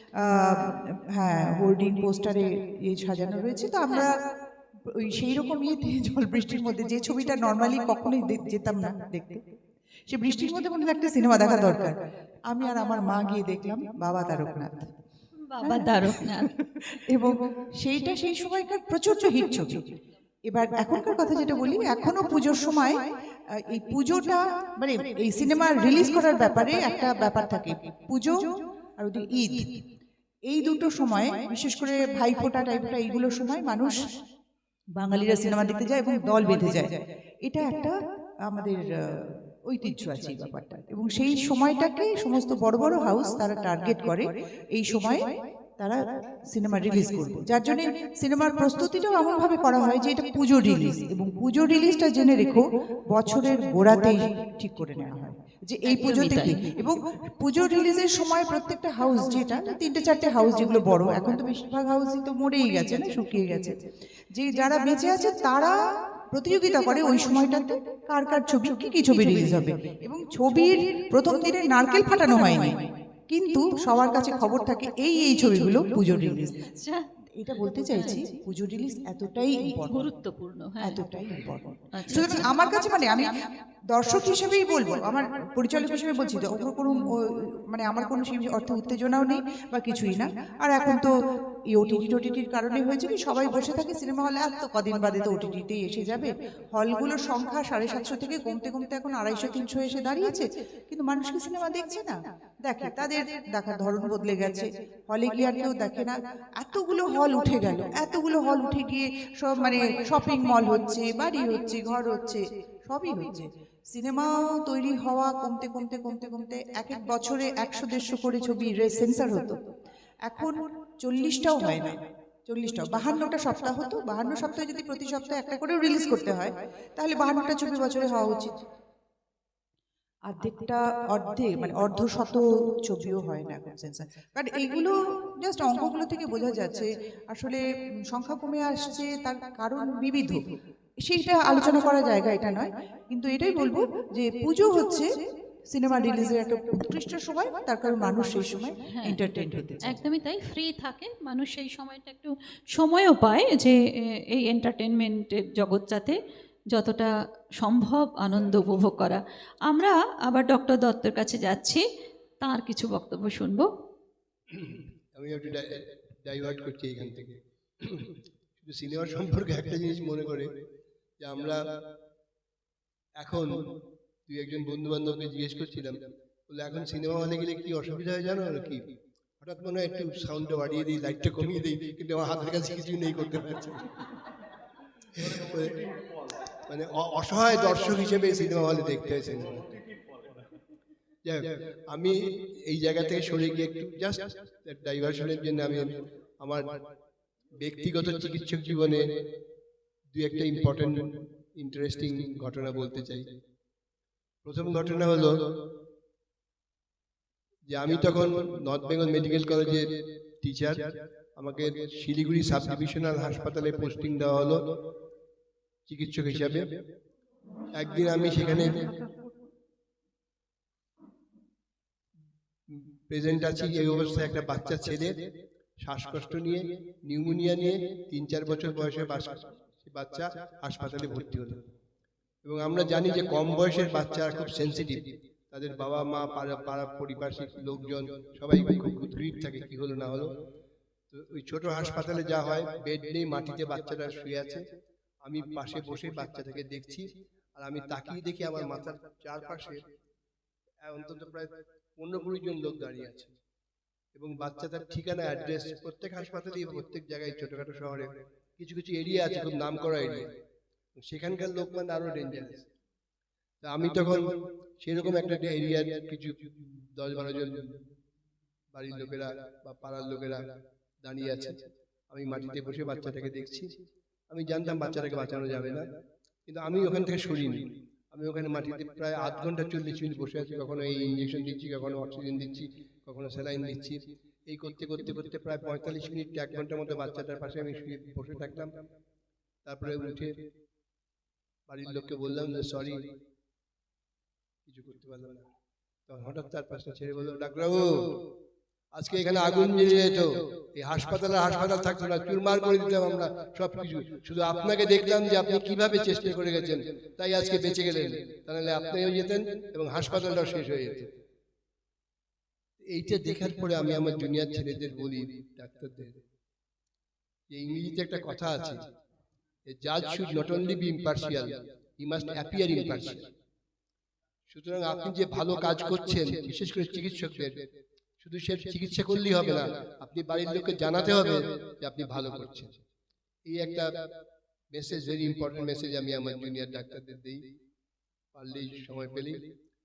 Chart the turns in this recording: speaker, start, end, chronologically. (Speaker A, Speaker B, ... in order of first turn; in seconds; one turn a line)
Speaker A: 0.2-4.2
Speaker A: 4.9-9.4
Speaker A: 10.1-12.0
Speaker A: 12.5-14.9
Speaker B: 15.5-16.5
Speaker A: 15.6-19.9
Speaker A: 20.5-23.0
Speaker A: 23.6-28.5
Speaker A: 29.0-29.8
Speaker A: 30.5-34.0
Speaker A: 35.0-37.9
Speaker A: 38.5-46.0
Speaker A: 46.5-63.8
Speaker B: 55.9-56.6
Speaker A: 64.3-65.7
Speaker A: 66.3-76.5
Speaker B: 76.6-77.0
Speaker A: 77.4-80.1
Speaker B: 79.9-81.0
Speaker A: 80.8-83.4
Speaker B: 81.9-82.5
Speaker A: 83.9-91.1
Speaker A: 91.7-119.6
Speaker A: 120.3-128.5
Speaker A: 130.3-140.4
Speaker A: 141.0-145.1
Speaker A: 145.7-150.0
Speaker B: 148.9-149.2
Speaker B: 149.9-153.8
Speaker B: 154.3-156.2
Speaker B: 156.7-161.8
Speaker B: 162.4-163.7
Speaker C: 164.5-170.5
Speaker C: 171.2-171.6
Speaker C: 173.2-173.7
Speaker C: 174.3-178.8
Speaker C: 179.4-183.9
Speaker C: 185.1-185.8
Speaker C: 186.7-189.7
Speaker C: 191.2-196.7
Speaker C: 197.6-199.1
Speaker C: 200.1-203.3
Speaker C: 204.4-205.4
Speaker C: 207.7-209.8
Speaker C: 210.4-210.8
Speaker C: 211.4-214.6
Speaker C: 215.9-216.6
Speaker C: 217.8-218.9
Speaker C: 222.7-225.1
Speaker C: 225.8-231.7
Speaker C: 232.4-240.3
Speaker C: 241.1-244.6
Speaker C: 245.2-249.8
Speaker C: 250.8-253.3
Speaker C: 254.1-260.3
Speaker C: 261.0-262.7
Speaker C: 263.6-264.2
Speaker C: 264.8-267.8
Speaker C: 268.7-270.4
Speaker C: 271.0-271.6
Speaker C: 272.1-273.7
Speaker C: 274.3-275.8
Speaker C: 276.5-288.7
Speaker C: 289.6-290.4
Speaker C: 291.7-293.1
Speaker C: 294.6-295.5
Speaker C: 296.1-298.2
Speaker C: 299.0-311.1
Speaker C: 312.8-316.2
Speaker C: 317.5-318.8
Speaker C: 319.7-323.3
Speaker C: 324.5-327.6
Speaker C: 328.2-332.8
Speaker C: 333.5-333.9
Speaker C: 334.7-337.5
Speaker C: 338.3-339.4